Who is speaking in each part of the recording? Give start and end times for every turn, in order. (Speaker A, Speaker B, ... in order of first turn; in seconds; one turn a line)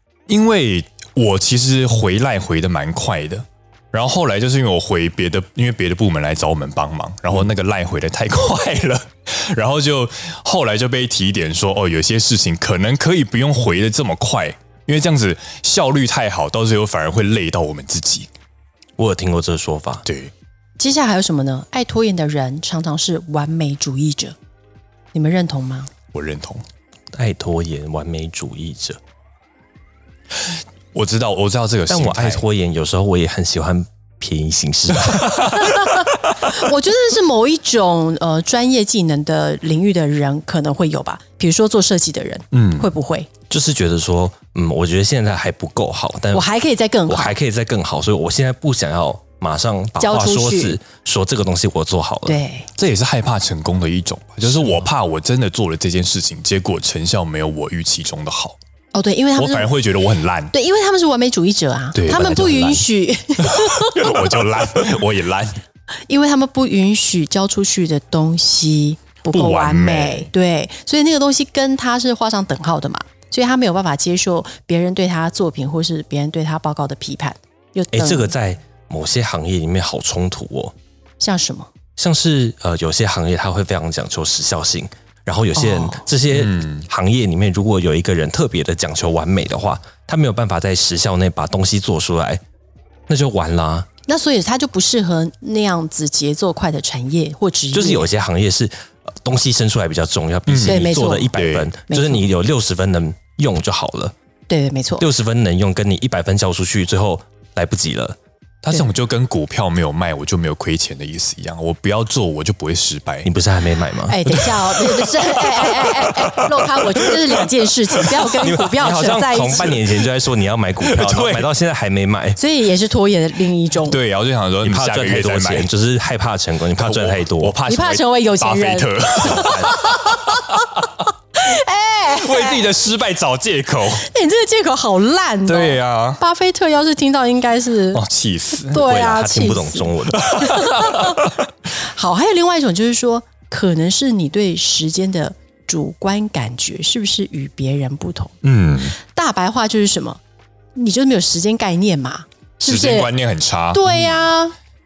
Speaker A: 0.3-18.3
Speaker B: 19.0-20.0
Speaker A: 20.1-20.3
Speaker C: 20.8-24.4
Speaker C: 25.1-25.9
Speaker A: 26.1-26.6
Speaker B: 27.1-29.0
Speaker A: 30.4-32.4
Speaker B: 31.9-35.7
Speaker A: 35.0-35.6
Speaker C: 35.4-43.3
Speaker A: 42.5-42.9
Speaker B: 43.5-46.5
Speaker C: 46.3-47.4
Speaker B: 47.1-52.4
Speaker C: 50.0-50.8
Speaker C: 52.2-52.7
Speaker A: 52.8-58.5
Speaker C: 58.9-59.7
Speaker A: 59.4-60.5
Speaker C: 60.5-64.3
Speaker A: 61.9-62.7
Speaker B: 62.1-62.8
Speaker A: 63.4-65.6
Speaker C: 66.1-78.3
Speaker A: 69.3-70.3
Speaker B: 77.9-80.7
Speaker C: 81.2-81.7
Speaker B: 82.0-92.4
Speaker C: 85.5-86.0
Speaker A: 86.3-86.9
Speaker B: 93.1-93.9
Speaker C: 94.1-98.1
Speaker B: 97.7-104.1
Speaker A: 100.5-101.7
Speaker C: 100.6-101.3
Speaker C: 101.9-102.2
Speaker C: 104.5-105.0
Speaker B: 105.0-108.2
Speaker A: 108.6-113.3
Speaker B: 113.2-114.5
Speaker C: 114.1-119.8
Speaker A: 114.8-117.1
Speaker B: 118.4-122.4
Speaker A: 120.8-121.5
Speaker C: 122.4-124.0
Speaker A: 123.9-125.7
Speaker B: 124.6-127.6
Speaker A: 126.8-130.8
Speaker C: 127.7-130.7
Speaker B: 129.3-129.8
Speaker C: 131.3-132.6
Speaker A: 132.1-134.1
Speaker C: 134.0-138.0
Speaker A: 135.5-136.2
Speaker A: 137.9-138.8
Speaker C: 138.7-148.3
Speaker B: 138.7-140.4
Speaker A: 140.1-141.3
Speaker A: 148.4-148.9
Speaker C: 149.0-150.2
Speaker C: 150.7-153.1
Speaker A: 152.7-154.2
Speaker C: 153.7-154.5